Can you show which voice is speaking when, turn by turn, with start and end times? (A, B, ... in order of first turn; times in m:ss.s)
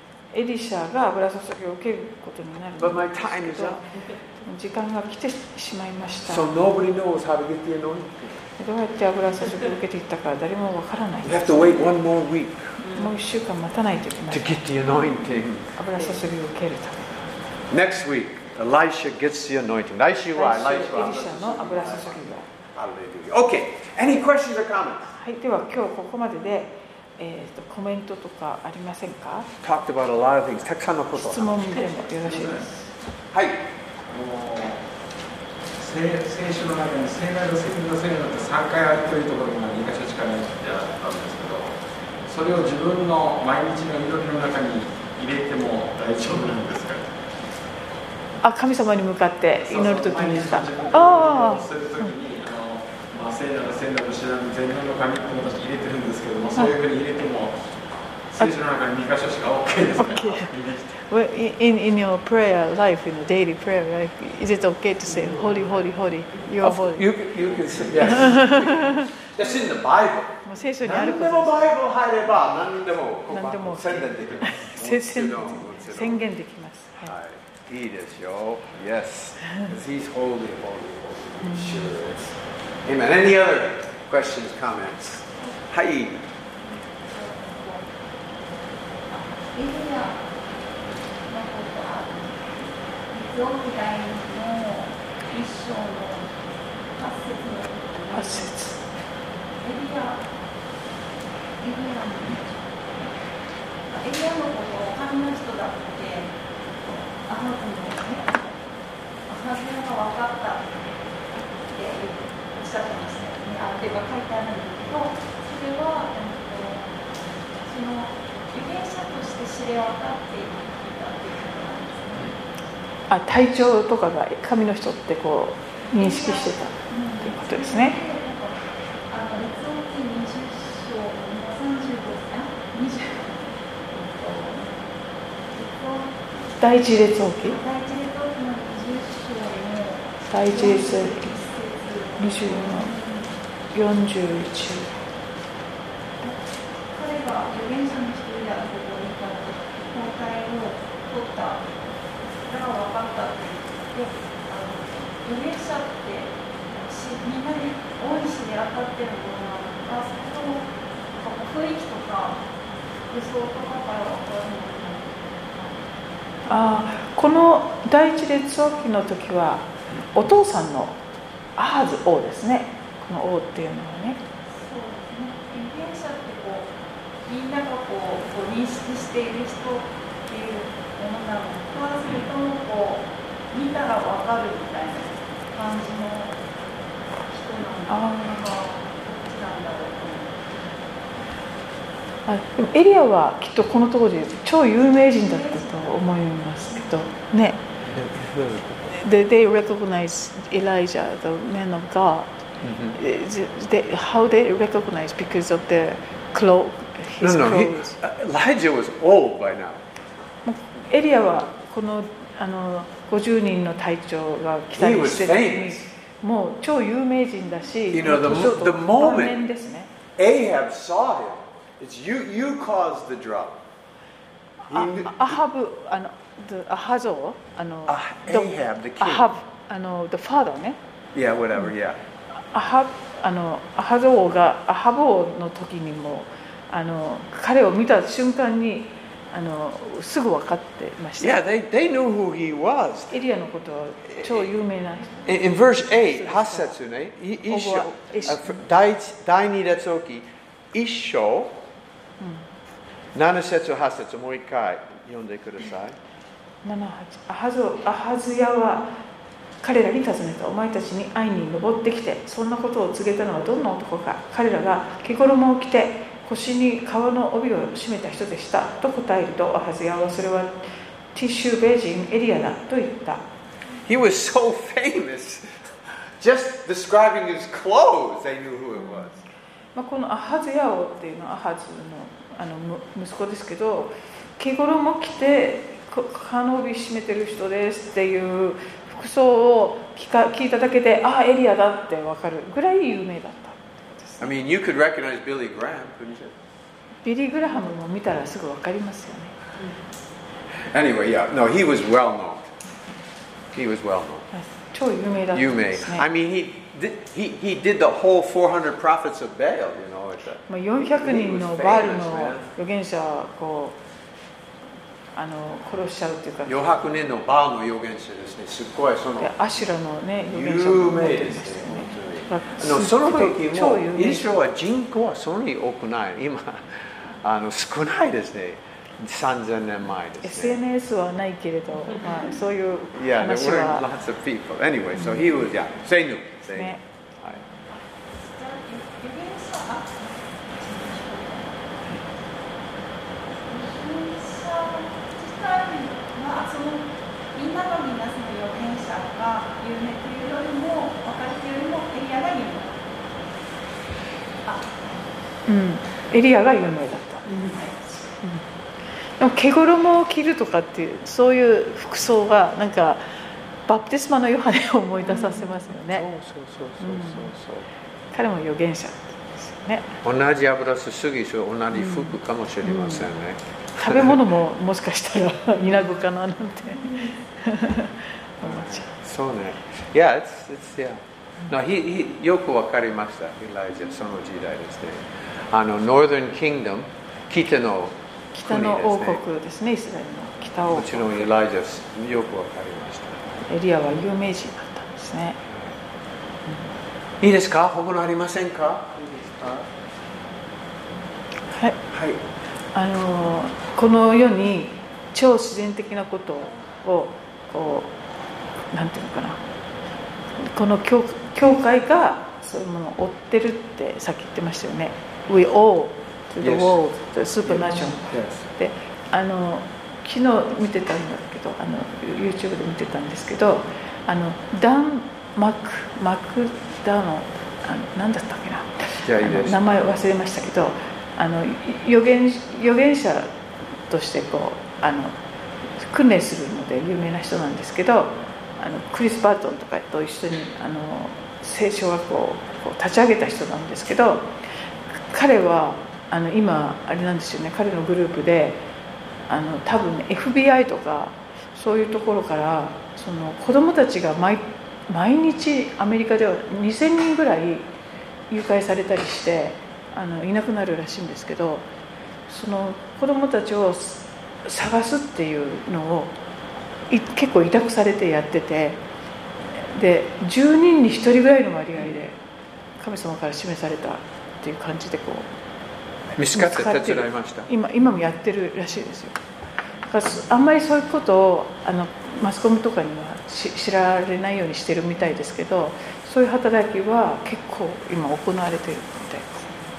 0:00.3-0:03.8 A
0:02.8-0:03.8 B
0:04.4-0:06.5 A
0:06.3-0:08.4 B
0:08.6-0:11.8 A
0:11.2-0:12.8 B
0:12.8-0:14.6 A
0:14.3-0:15.7 B
0:15.8-0:17.3 A
0:17.7-0:25.1 B
0:20.3-0:22.5 A
0:25.1-0:29.5 A
0:29.6-0:31.7 B
0:31.2-0:32.9 A
0:32.3-0:32.6 C
0:33.3-0:33.6 B
0:34.1-0:34.8 C
0:35.8-0:41.7 C
0:42.3-0:47.1 C
0:48.4-0:52.1 A
0:49.6-0:57.6 C
0:58.3-1:00.9 C
1:00.0-1:07.1 A
1:06.6-1:16.2 B
1:08.0-1:09.1 A
1:10.4-1:11.7 A
1:13.3-1:17.1 A
1:17.0-1:26.2 B
1:21.4-1:21.9 A
1:26.6-1:27.9 D
1:29.1-1:30.2 D
1:31.2-1:36.3 D
1:36.9-1:38.5 D
1:38.1-1:38.8 A
1:39.6-1:40.2 D
1:41.6-1:43.2 D
1:43.9-1:48.6 D
1:49.3-1:57.0 D
1:57.6-2:02.4 D
2:03.1-2:08.0 A
2:05.9-2:08.6 D
2:09.1-2:14.8 D
2:15.5-2:16.5 D
2:16.6-2:17.6 A
2:17.4-2:23.3 D
2:20.3-2:21.3 A
2:22.2-2:22.9 A
2:23.7-2:25.0 A
2:26.2-2:31.7 D
2:32.4-2:42.4 D
2:43.1-2:45.8 D
2:46.5-2:51.0 A
2:51.6-2:54.2 A
2:54.5-2:56.7 D
2:57.2-3:06.4 D
3:07.2-3:10.6 D
3:07.9-3:08.5 A
3:12.3-3:17.6 A
3:15.2-3:16.0 D
3:16.7-3:17.0 D
3:17.8-3:18.9 B
3:18.8-3:22.3 A
3:22.6-3:23.0 B
3:22.9-3:27.9 A
3:27.2-3:29.8 B
3:30.4-3:39.9 A
3:34.8-3:35.8 B
3:37.9-3:39.4 B
3:40.2-3:43.6 B
3:44.7-3:45.4 B
3:44.7-3:50.8 A
3:47.9-3:49.3 B
3:51.1-3:52.0 B
3:52.5-4:01.4 A
4:01.2-4:03.2 B
4:03.1-4:06.7 A
4:04.1-4:04.4 B
4:05.2-4:11.5 B
4:07.5-4:08.5 A
4:12.2-4:12.4 A
4:13.1-4:16.0 B
4:16.6-4:18.9 A
4:19.6-4:33.2 A
4:33.8-4:35.5 B
4:36.2-4:39.2 B
4:38.8-4:39.2 A
4:39.7-4:54.3 A
4:54.2-4:56.3 B
4:57.0-4:59.3 A
5:00.7-5:02.5 B
5:03.5-5:04.3 B
5:04.3-5:06.0 A
5:05.3-5:12.5 B
5:10.5-5:13.8 A
5:15.1-5:16.6 A
5:16.4-5:19.3 B
5:19.2-5:24.3 A
5:20.3-5:30.6 B
5:30.2-5:33.8 A
5:32.9-5:37.4 B
5:35.0-5:35.3 A
5:36.5-5:36.8 A
5:37.7-5:41.7 D
5:43.4-5:53.2 D
5:54.4-5:54.8 D
5:55.5-5:57.4 A
5:57.3-5:57.7 D
5:58.0-5:58.4 A
5:59.2-6:03.1 A
6:03.6-6:06.0 A
6:05.9-6:07.7 B
6:06.8-6:07.3 A
6:08.1-6:09.9 A
6:10.0-6:14.2 B
6:11.7-6:13.1 A
6:13.8-6:18.9 A
6:18.4-6:29.2 B
6:28.3-6:31.3 A
6:30.7-6:33.3 B
6:33.5-6:35.4 A
6:35.5-6:35.7 B
6:37.2-6:39.7 B
6:41.5-6:41.8 A
6:41.9-6:42.2 B
6:42.7-6:48.0 A
6:48.7-6:49.4 A
6:50.4-7:13.3 A
6:56.4-6:56.8 B
6:57.4-6:58.5 B
7:09.0-7:09.6 B
7:13.9-7:15.2 A
7:15.8-7:24.3 A
7:24.9-7:28.6 A
7:29.3-7:37.7 A
7:38.3-7:41.6 A
7:42.3-7:46.1 A
7:46.9-7:48.8 A
7:49.6-7:52.2 A
7:52.8-7:55.3 A
7:56.2-7:57.5 B
7:56.3-7:59.2 A
7:59.8-8:09.5 A